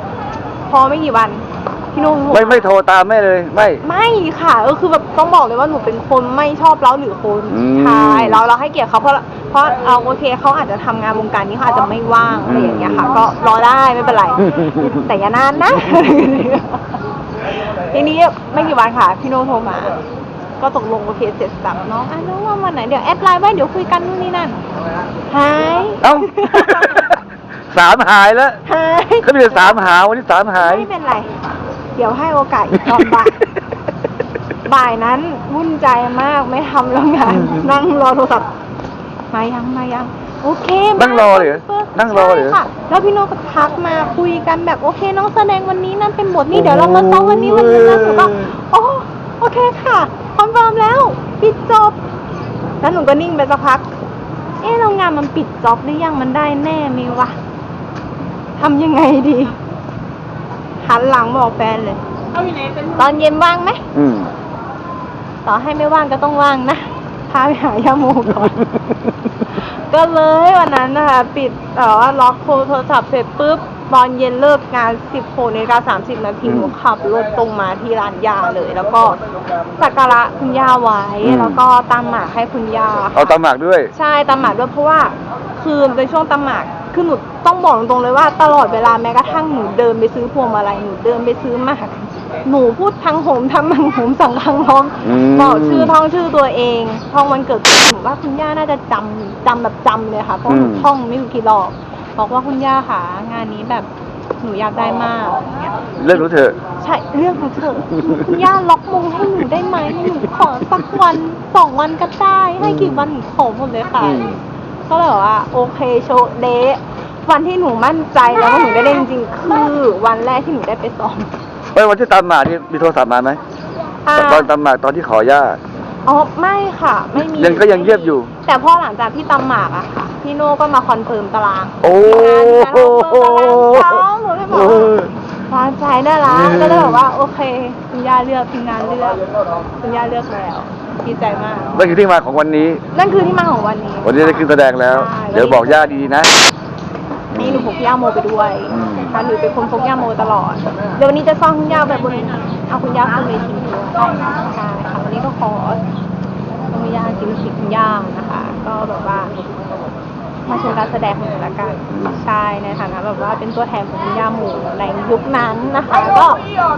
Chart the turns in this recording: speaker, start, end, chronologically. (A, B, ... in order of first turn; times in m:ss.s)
0:00.7-0:02.7 A
0:02.3-0:03.8 B
0:03.8-0:17.0 A
0:07.5-0:08.4 B
0:12.4-0:13.2 B
0:17.5-0:20.0 A
0:20.6-0:24.6 A
0:25.3-0:27.1 A
0:26.0-0:27.1 B
0:27.7-0:28.6 B
0:28.6-0:29.8 A
0:29.2-0:30.9 B
0:30.6-0:31.3 A
0:32.0-0:33.4 A
0:34.6-0:38.5 A
0:39.3-0:52.0 A
0:41.0-0:42.6 B
0:46.5-0:48.5 B
0:52.8-0:53.9 A
0:54.6-0:57.4 A
0:58.6-0:59.6 A
1:00.8-1:02.0 A
1:02.8-1:03.8 A
1:03.9-1:04.3 B
1:05.4-1:08.6 A
1:09.5-1:19.2 A
1:16.4-1:16.7 B
1:19.8-1:23.4 A
1:21.2-1:21.6 B
1:23.1-1:23.9 B
1:23.9-1:43.9 A
1:35.0-1:35.9 B
1:40.5-1:40.9 B
1:44.4-1:46.3 A
1:46.0-1:46.6 B
1:46.8-1:54.3 A
1:52.6-1:53.0 B
1:54.0-1:54.4 B
1:54.9-2:01.3 A
2:01.7-2:03.4 B
2:04.0-2:04.5 A
2:04.1-2:05.6 B
2:06.0-2:14.9 A
2:07.2-2:08.3 B
2:11.8-2:15.1 B
2:15.5-2:19.3 A
2:16.2-2:17.0 B
2:19.8-2:21.7 A
2:21.7-2:22.8 B
2:22.9-2:25.8 A
2:24.0-2:26.3 B
2:27.3-2:27.7 B
2:27.4-2:35.8 A
2:28.7-2:29.2 B
2:36.7-2:39.3 A
2:40.4-2:46.5 A
2:41.9-2:42.3 B